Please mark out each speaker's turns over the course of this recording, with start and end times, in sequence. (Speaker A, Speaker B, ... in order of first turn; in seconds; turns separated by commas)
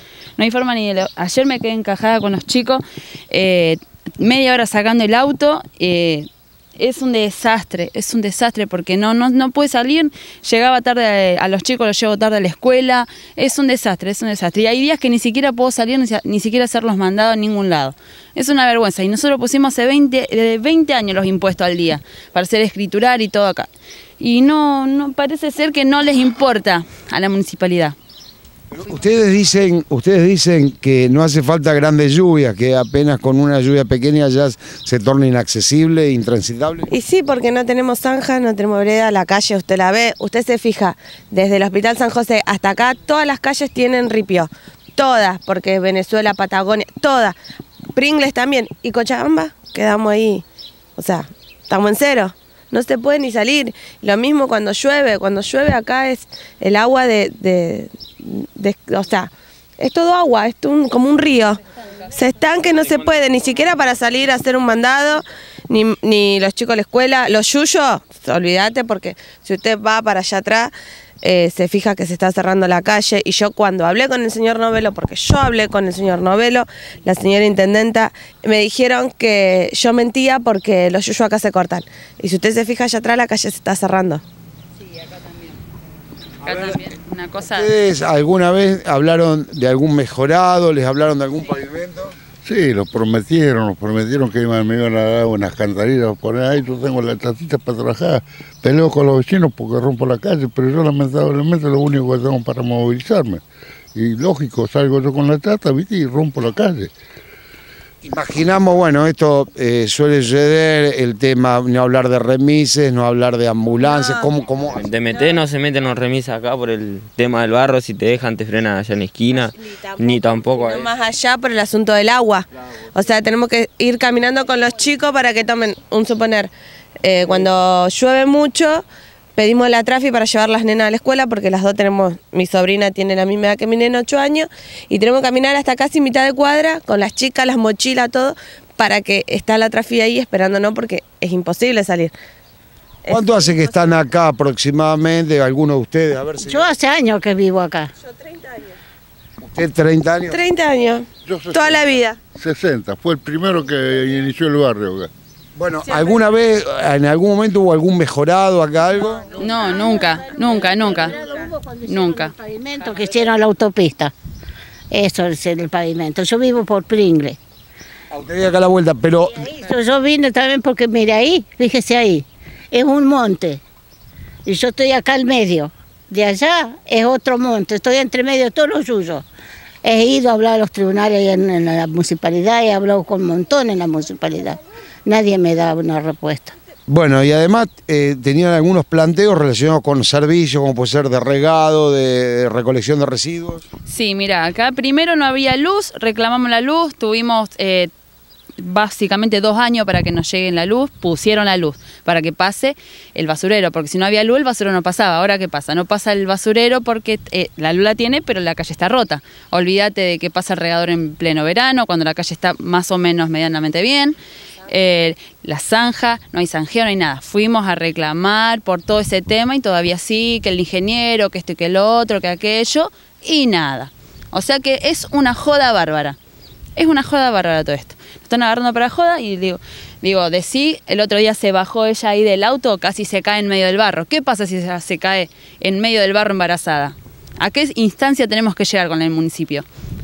Speaker A: 0.4-23.7, Speaker A: 24.2-27.9, Speaker B: 28.7-36.9, Speaker C: 36.9-47.3, Speaker C: 48.0-50.4, Speaker C: 51.0-70.7, Speaker C: 71.2-84.2, Speaker A: 86.4-87.7, Speaker B: 86.5-86.8, Speaker B: 87.5-92.1, Speaker D: 92.5-103.4, Speaker D: 104.0-106.9, Speaker B: 108.0-114.8, Speaker C: 113.8-114.3, Speaker E: 114.7-120.9, Speaker C: 115.1-115.4, Speaker C: 119.3-126.5, Speaker C: 127.0-128.8, Speaker C: 129.3-142.1, Speaker C: 143.1-144.0, Speaker B: 143.1-146.7, Speaker F: 146.4-147.9, Speaker C: 148.1-148.8, Speaker B: 149.4-150.4, Speaker C: 150.3-152.2, Speaker D: 151.2-155.1, Speaker B: 155.6-159.5, Speaker A: 159.3-161.2, Speaker F: 159.8-164.1, Speaker A: 161.8-162.3, Speaker F: 164.9-167.4, Speaker B: 168.1-169.5, Speaker F: 169.3-173.6, Speaker F: 174.4-179.2, Speaker F: 179.8-186.5, Speaker B: 186.9-193.7, Speaker A: 193.8-197.9, Speaker A: 198.6-226.2, Speaker A: 226.8-239.7